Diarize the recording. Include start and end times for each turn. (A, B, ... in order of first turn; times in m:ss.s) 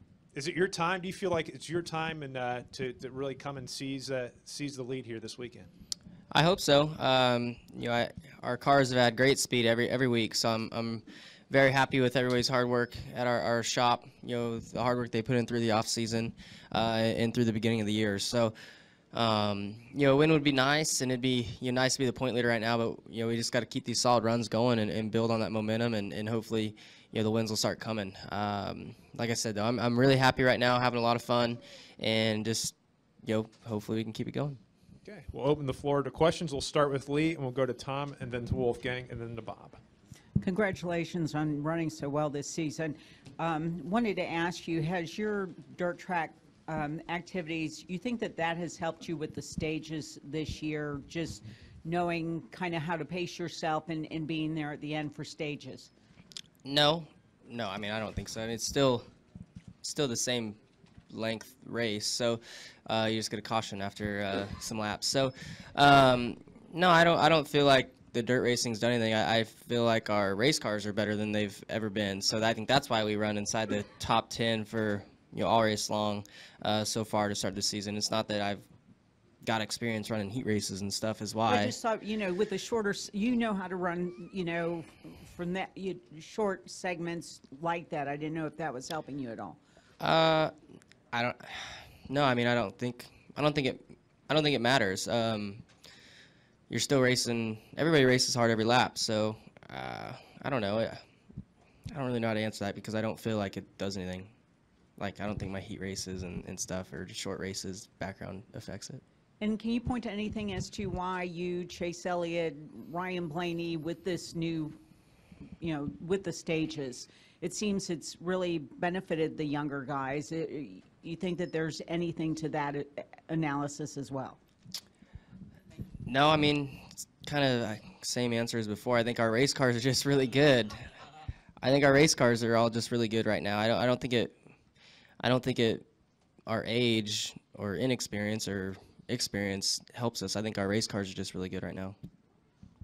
0:00.3-0:05.7 A
0:06.3-0:18.5 B
0:19.1-0:34.6 B
0:35.1-0:39.8 A
0:40.4-0:55.9 C
0:56.6-0:59.0 B
0:59.8-1:00.6 B
1:01.1-1:18.7 B
1:19.4-1:21.8 B
1:21.5-1:29.6 C
1:30.0-1:30.5 B
1:31.1-1:35.6 B
1:36.7-1:41.0 B
1:41.9-1:44.3 B
1:45.0-1:49.0 B
1:49.4-1:54.8 C
1:55.6-2:04.4 C
2:06.1-2:10.8 B
2:11.6-2:14.3 B
2:15.2-2:15.8 B
2:16.5-2:22.0 B